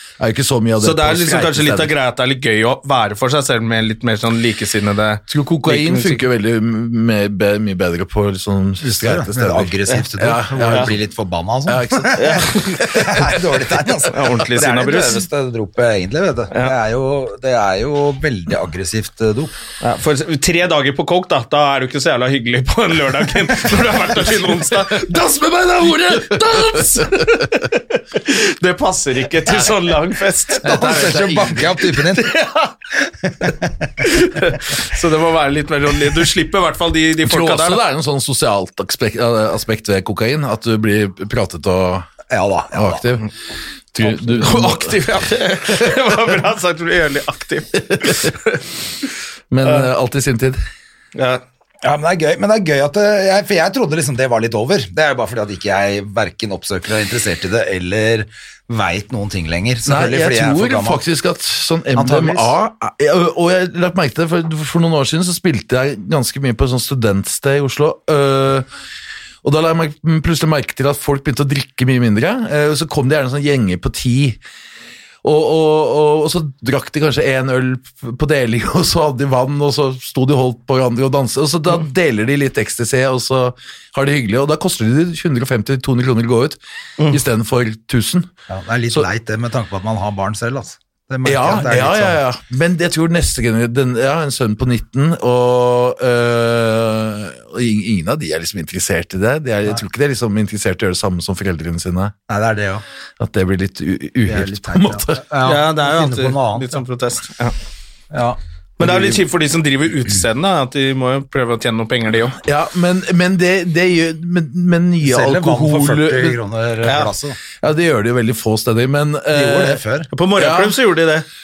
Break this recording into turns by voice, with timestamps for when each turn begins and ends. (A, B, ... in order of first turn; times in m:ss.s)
0:00.2-0:01.9 A
0:00.8-0:06.2 B
0:05.3-0:11.0 A
0:08.8-0:19.5 C
0:11.7-0:12.5 A
0:12.2-0:13.1 B
0:14.1-0:15.3 B
0:19.8-0:25.2 B
0:24.4-0:27.4 A
0:25.8-0:31.3 B
0:30.6-0:31.8 A
0:30.6-0:32.3 C
0:32.0-0:32.7 B
0:33.4-0:33.7 C
0:34.0-0:37.8 B
0:37.2-0:42.1 A
0:42.3-0:43.0 C
0:42.7-0:43.3 A
0:43.9-0:45.0 A
0:44.1-0:48.6 B
0:47.9-0:48.3 A
0:49.5-0:50.6 A
0:51.2-0:51.4 B
0:51.8-1:01.0 C
0:59.8-1:08.7 A
1:02.0-1:02.5 C
1:09.4-1:14.4 A
1:15.2-1:28.3 A
1:28.5-1:32.2 C
1:31.2-1:42.1 A
1:42.3-1:42.8 C
1:43.2-1:45.2 A
1:44.3-1:46.8 C
1:45.4-1:47.6 B
1:48.1-1:48.4 C
1:48.8-1:52.4 B
1:48.8-1:49.2 A
1:52.4-1:56.4 A
1:55.0-1:57.4 C
1:56.8-1:57.1 B
1:57.6-1:59.8 A
1:59.3-2:00.1 C
2:00.1-2:01.3 B
2:00.4-2:00.8 A